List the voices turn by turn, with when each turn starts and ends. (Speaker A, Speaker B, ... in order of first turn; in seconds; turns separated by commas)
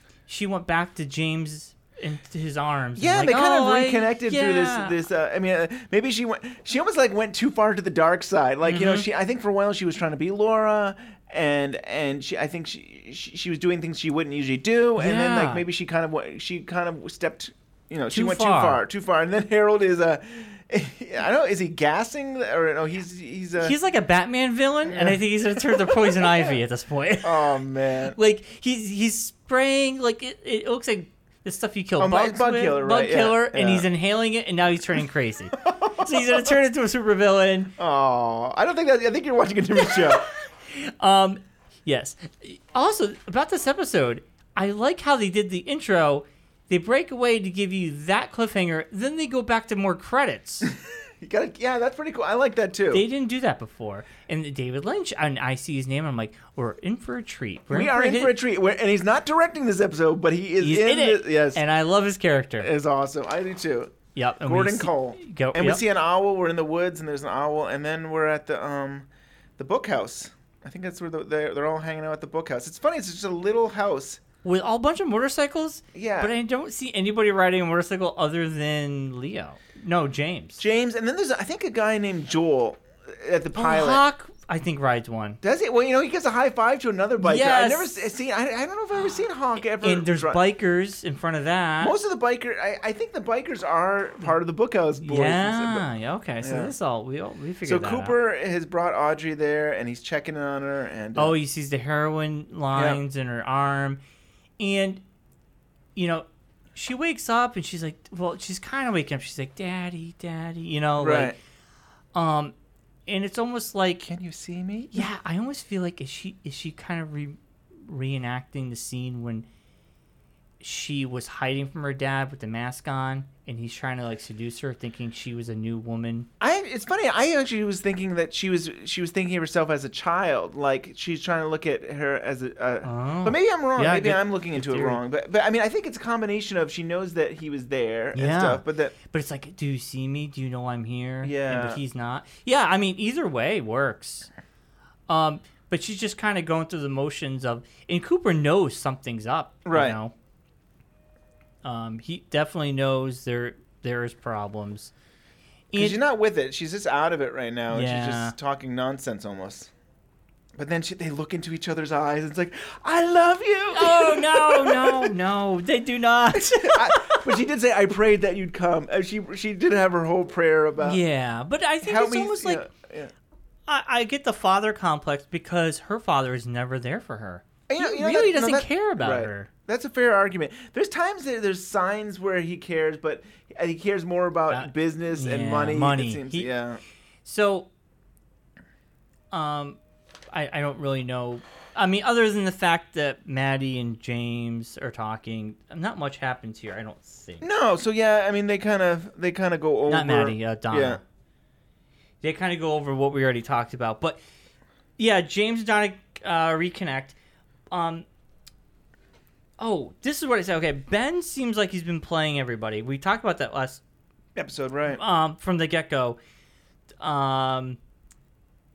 Speaker A: 0.3-5.0, Speaker B: 3.0-23.8, Speaker A: 8.6-9.1, Speaker A: 15.0-15.7, Speaker A: 18.1-18.8, Speaker A: 23.6-27.5, Speaker B: 24.9-26.6, Speaker B: 27.2-28.2, Speaker A: 28.1-37.7, Speaker B: 32.0-33.9, Speaker B: 35.6-36.5, Speaker B: 37.8-40.2, Speaker A: 40.1-50.7, Speaker B: 50.6-53.0, Speaker A: 52.9-58.3, Speaker B: 57.7-61.6, Speaker A: 60.6-62.7, Speaker B: 62.6-69.1, Speaker A: 64.1-65.8, Speaker B: 69.6-74.2, Speaker A: 74.4-80.6, Speaker B: 75.9-76.3, Speaker B: 80.6-84.0, Speaker A: 83.5-85.4, Speaker B: 85.4-90.4, Speaker A: 87.2-88.0, Speaker A: 89.6-91.9, Speaker B: 91.8-95.8, Speaker A: 95.0-98.2, Speaker B: 96.4-96.7, Speaker B: 97.6-101.3, Speaker A: 101.2-104.0, Speaker B: 102.7-103.0, Speaker A: 104.6-105.0, Speaker A: 106.0-111.3, Speaker B: 111.0-111.3, Speaker A: 112.1-112.5, Speaker A: 113.0-114.0, Speaker B: 114.0-115.0, Speaker A: 114.9-119.5, Speaker A: 120.6-126.3, Speaker B: 126.4-138.9, Speaker A: 132.8-135.0, Speaker A: 138.1-144.3, Speaker B: 141.2-141.8, Speaker A: 145.1-150.1, Speaker B: 149.7-150.0, Speaker A: 151.6-154.9, Speaker A: 155.7-156.0, Speaker B: 155.7-159.7, Speaker A: 157.7-158.3, Speaker B: 160.6-165.1, Speaker A: 163.7-167.3, Speaker B: 166.3-171.0, Speaker A: 170.8-172.7, Speaker B: 171.8-173.1, Speaker A: 173.7-179.5, Speaker B: 177.7-186.8, Speaker A: 184.5-186.5, Speaker A: 187.2-187.7, Speaker A: 189.3-189.8, Speaker A: 190.3-197.5, Speaker B: 197.4-201.0, Speaker A: 199.9-201.0, Speaker A: 202.2-204.2, Speaker A: 205.0-207.2, Speaker A: 207.7-208.1, Speaker A: 209.6-213.8, Speaker B: 214.3-215.0, Speaker A: 214.9-216.2, Speaker A: 217.0-217.8